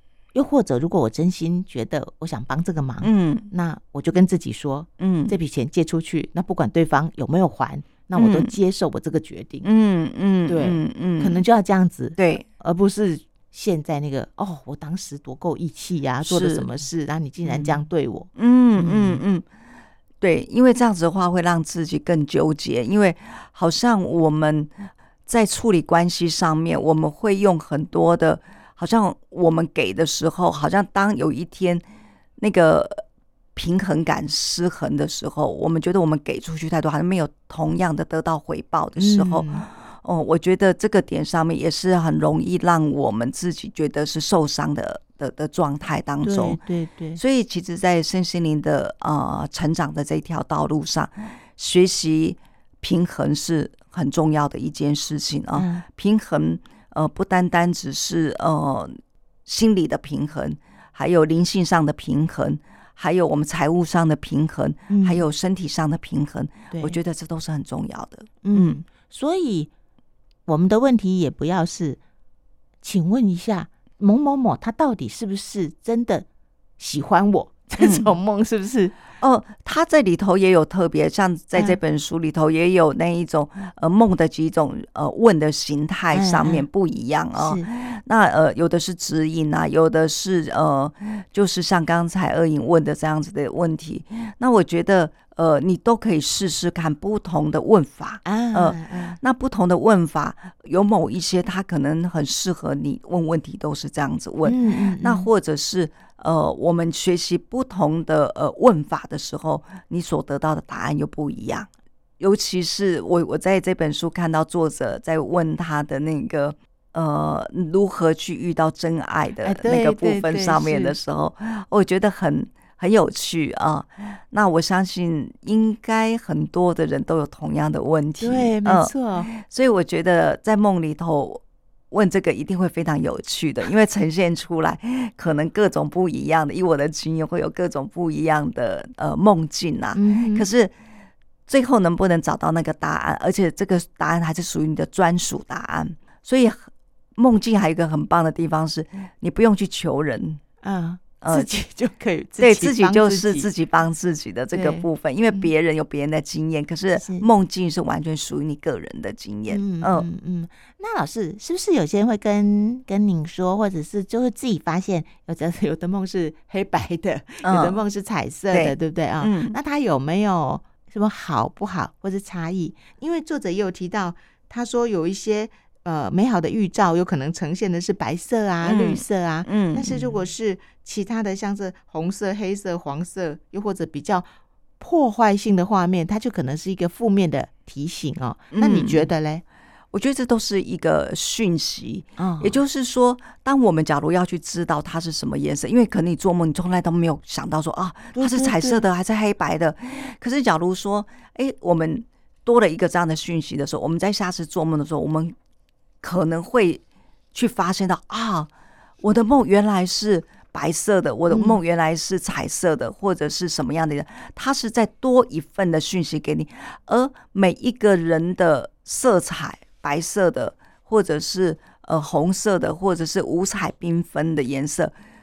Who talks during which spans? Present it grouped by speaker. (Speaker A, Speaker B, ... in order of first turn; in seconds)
Speaker A: 0.3-9.7, 10.5-19.2, 39.0-39.7, 46.2-47.2, 55.5-55.8, 64.9-65.2, 66.7-67.0, 68.4-69.7, 70.5-72.0, 72.8-76.2, 76.8-78.9, 86.1-86.7, 87.3-87.7, 98.2-99.2, 104.4-105.3, 119.4-121.0, 128.2-129.3, 139.9-140.4, 150.6-153.5, 154.5-155.5, 156.9-157.3, 159.5-184.2, 184.8-189.4, 192.2-192.6, 198.1-198.8, 211.3-211.6
Speaker B: 3.0-3.5, 5.0-5.4, 8.2-8.5, 9.6-11.4, 12.2-12.4, 16.2-16.7, 17.4-19.4, 20.2-24.7, 25.3-31.8, 32.4-33.0, 33.5-46.6, 47.2-68.8, 77.8-78.1, 79.2-111.7, 112.2-140.7, 141.5-150.4, 151.2-151.5, 152.4-160.1, 167.4-167.8, 168.5-169.6, 178.6-180.1, 188.5-189.1, 189.9-205.3, 206.0-206.8, 207.3-208.5, 209.0-224.9